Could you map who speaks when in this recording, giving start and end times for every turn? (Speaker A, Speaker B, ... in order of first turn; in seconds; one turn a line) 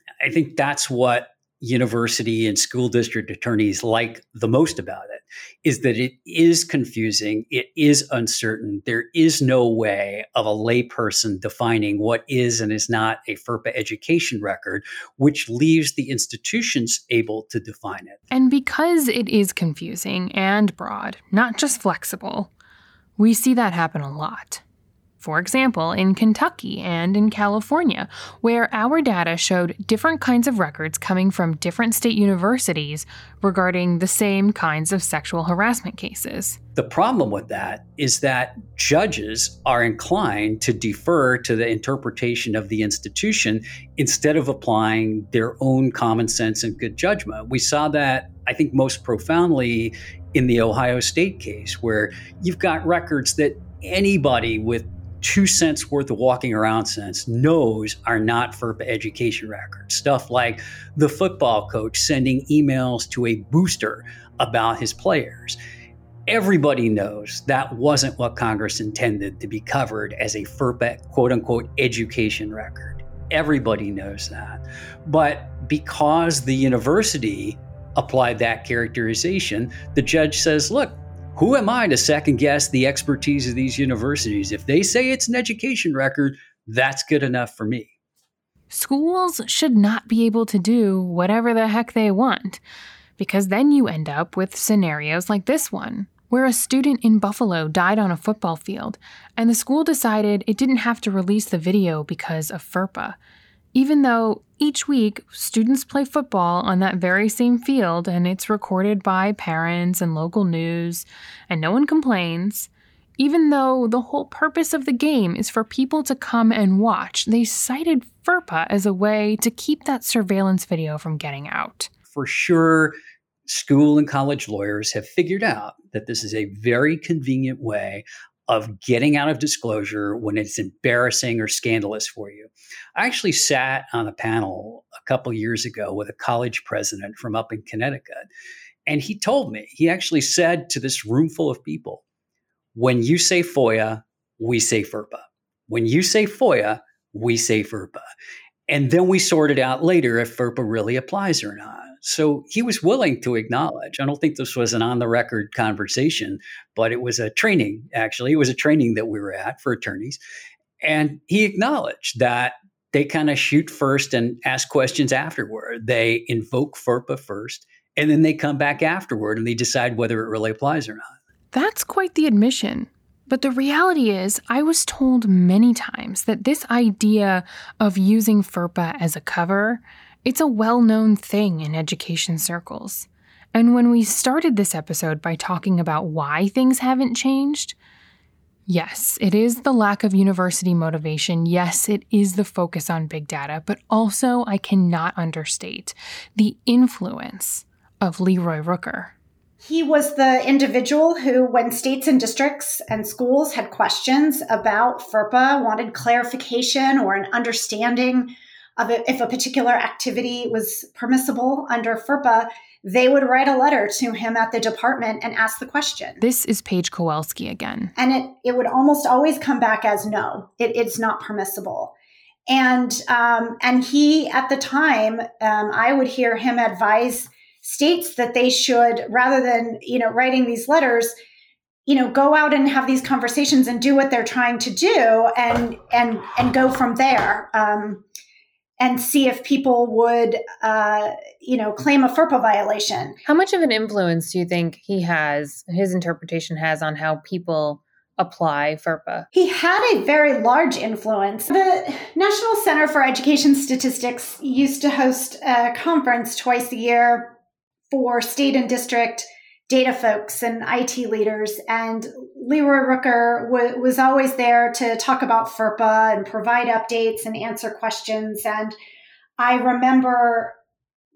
Speaker A: 0.2-18.2
Speaker B: 18.3-22.5
Speaker B: 23.2-24.6
Speaker B: 25.2-36.6
Speaker A: 36.7-65.6
Speaker A: 66.3-87.9
Speaker B: 88.7-92.6
Speaker B: 93.2-103.2
Speaker B: 103.7-121.9
Speaker A: 122.1-123.0
Speaker A: 123.5-138.3
Speaker A: 138.8-142.0
Speaker A: 142.7-148.0
Speaker A: 148.7-160.2
Speaker A: 160.8-171.2
Speaker B: 171.5-187.8
Speaker B: 188.7-199.1
Speaker C: 199.6-216.2
Speaker B: 216.2-217.9
Speaker C: 218.0-221.9
Speaker C: 222.5-231.1
Speaker C: 231.9-238.0
Speaker C: 238.8-243.2
Speaker D: 243.2-249.3
Speaker C: 249.3-257.4
Speaker C: 257.9-268.7
Speaker C: 269.4-270.6